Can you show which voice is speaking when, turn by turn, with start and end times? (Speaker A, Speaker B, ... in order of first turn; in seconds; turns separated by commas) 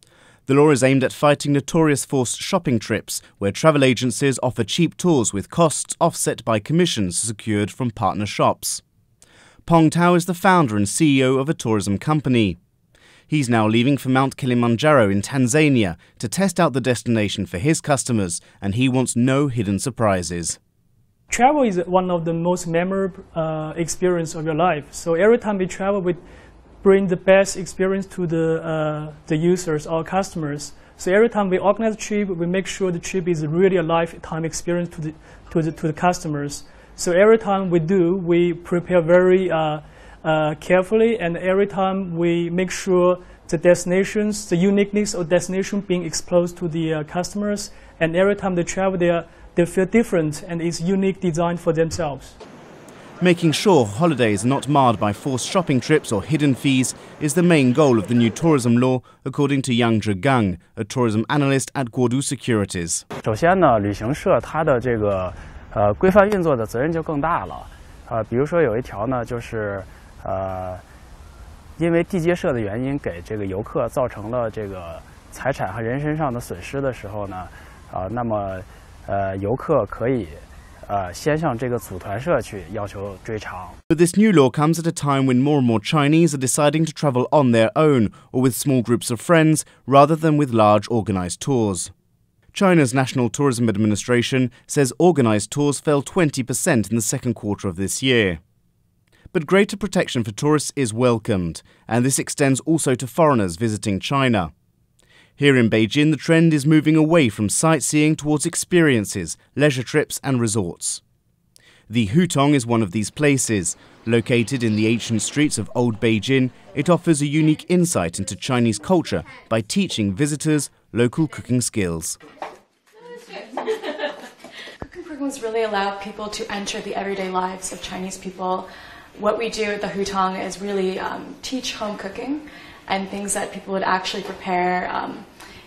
Speaker A: 0.5-8.8, Speaker A: 9.7-12.6, Speaker A: 13.3-20.6, Speaker B: 21.3-26.2, Speaker B: 26.8-52.3, Speaker A: 53.2-63.0, Speaker C: 63.2-70.8, Speaker C: 71.8-83.8, Speaker A: 83.9-91.9, Speaker A: 92.5-98.4, Speaker A: 99.3-104.5, Speaker A: 105.4-111.0, Speaker A: 111.9-122.2, Speaker D: 124.8-135.2